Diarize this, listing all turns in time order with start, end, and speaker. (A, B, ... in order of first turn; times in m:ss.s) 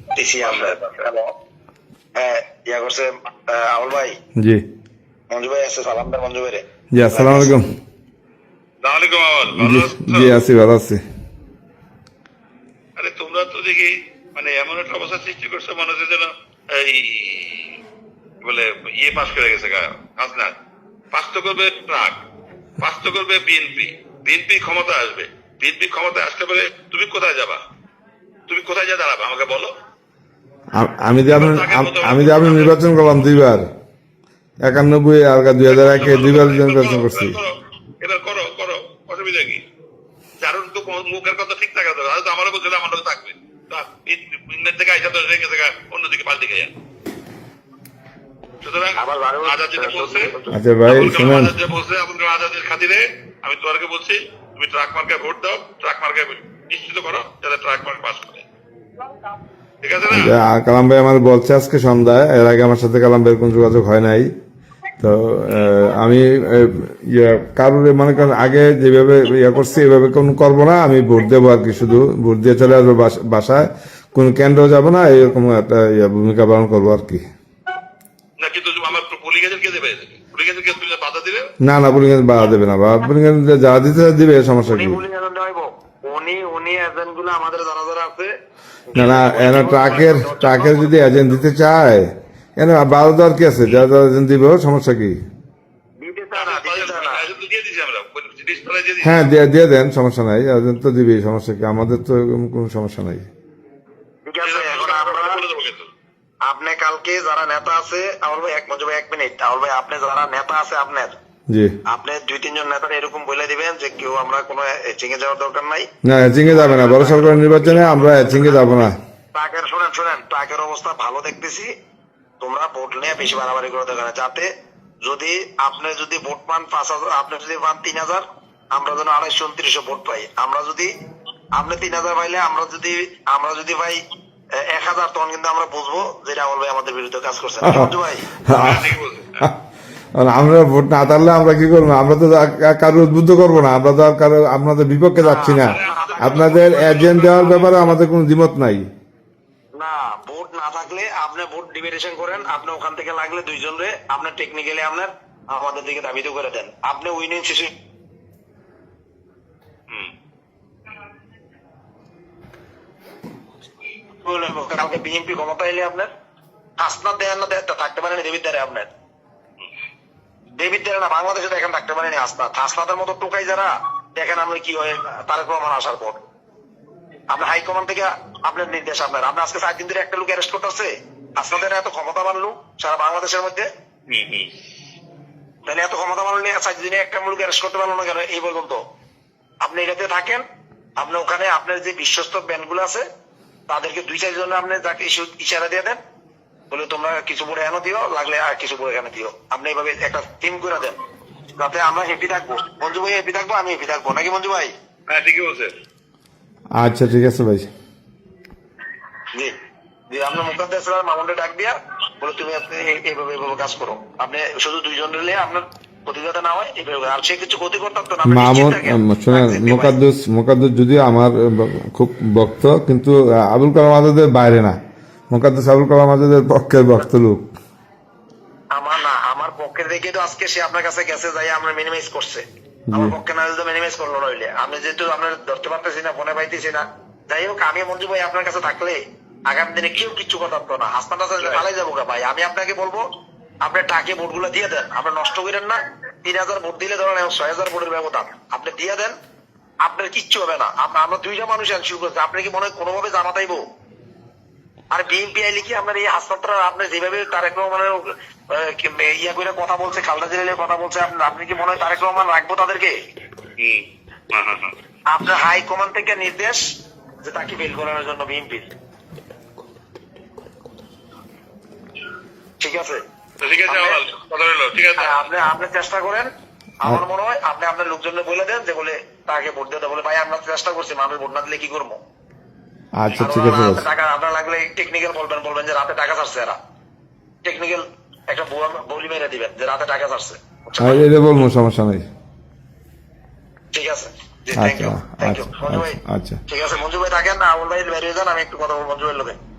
0:00.1-0:01.2 A
0:00.4-0:00.8 B
0:02.1-0:04.2 A
0:04.4-0:04.6 C
0:05.3-0:07.5 A
0:06.9-0:07.6 C
0:08.8-0:10.4 B
0:09.5-0:11.0 C
0:13.0-0:17.8 B
0:18.4-0:20.5 B
0:21.1-0:22.2 B
0:22.8-0:27.6 B
0:28.5-0:29.7 B
0:30.7-0:33.6 C
0:31.3-0:32.8 B
0:34.6-0:37.4 C
0:35.6-0:39.6 B
0:40.4-0:46.7 B
0:48.6-0:50.3 B
0:49.0-0:50.6 A
0:50.5-0:51.5 C
0:50.8-0:58.4 B
0:59.8-1:00.4 B
1:00.1-1:04.3 C
1:05.0-1:17.2 C
1:18.4-1:21.5 B
1:21.6-1:25.0 C
1:24.6-1:28.3 A
1:28.9-1:31.3 A
1:28.9-1:35.2 C
1:36.0-1:37.2 A
1:36.3-1:39.3 B
1:39.0-1:43.3 C
1:44.2-1:45.4 A
1:44.4-1:45.9 B
1:46.4-1:51.2 A
1:51.5-1:51.7 C
1:51.9-1:55.8 A
1:56.0-1:59.0 C
1:56.4-2:01.7 A
2:02.4-2:04.5 A
2:05.0-2:10.9 A
2:11.5-2:14.0 A
2:14.6-2:18.3 A
2:17.6-2:17.9 C
2:18.4-2:19.5 C
2:18.5-2:19.4 B
2:20.2-2:28.9 C
2:25.2-2:27.6 A
2:25.5-2:27.8 B
2:29.8-2:37.7 A
2:44.2-2:46.1 A
2:46.8-2:48.9 A
2:50.6-2:56.2 A
2:57.3-3:03.7 A
3:04.1-3:04.5 B
3:05.6-3:08.8 A
3:09.6-3:10.4 A
3:11.0-3:13.0 A
3:13.7-3:16.0 A
3:16.7-3:21.0 A
3:21.6-3:24.7 A
3:25.1-3:25.7 B
3:26.8-3:27.7 C
3:30.1-3:39.9 A
3:38.3-3:44.7 C
3:45.3-3:47.4 C
3:48.7-4:03.0 A
3:52.9-3:53.1 C
4:03.6-4:09.1 A
4:09.8-4:13.6 A
4:14.9-4:23.0 A
4:23.6-4:24.7 B
4:25.1-4:26.6 A
4:27.2-4:28.7 A
4:32.6-4:33.0 A
4:33.4-4:35.3 B
4:33.6-4:34.0 A
4:35.0-4:36.3 A
4:36.8-4:42.0 A
4:43.0-4:43.9 C
4:43.2-4:46.6 A
4:47.4-4:51.0 A
4:50.8-4:52.0 C
4:53.7-4:59.4 A
4:54.6-4:56.4 C